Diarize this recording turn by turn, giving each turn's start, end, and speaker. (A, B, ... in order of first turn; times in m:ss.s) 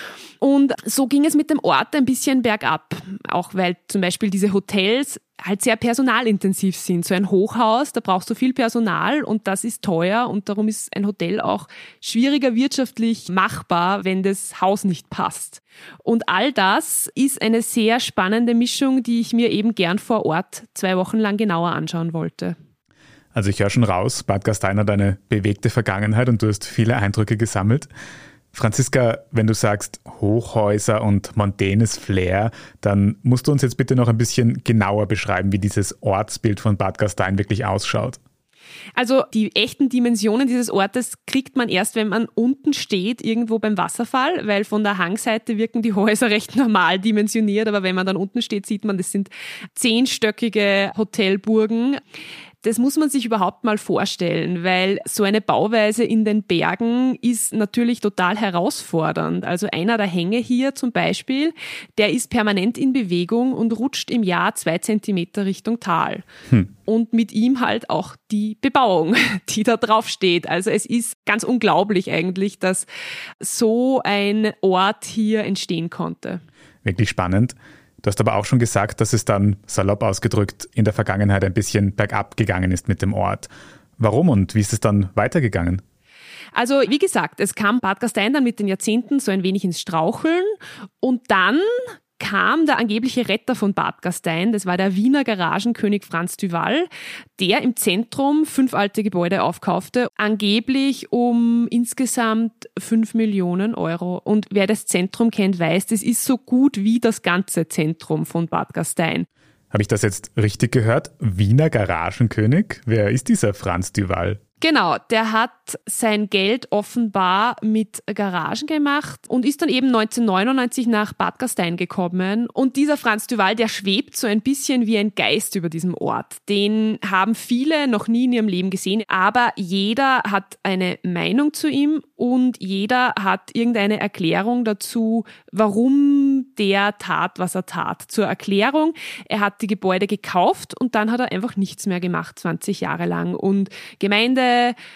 0:00.4-0:22.6 A
0:23.3-0:27.9 B
0:28.5-0:38.2 B
0:39.0-0:52.0 A
0:52.6-1:06.2 A
1:06.8-1:12.9 A
1:13.4-1:16.4 A
1:16.8-1:25.8 B
1:26.5-1:49.3 A
1:49.7-1:54.4 B
1:54.6-2:24.8 A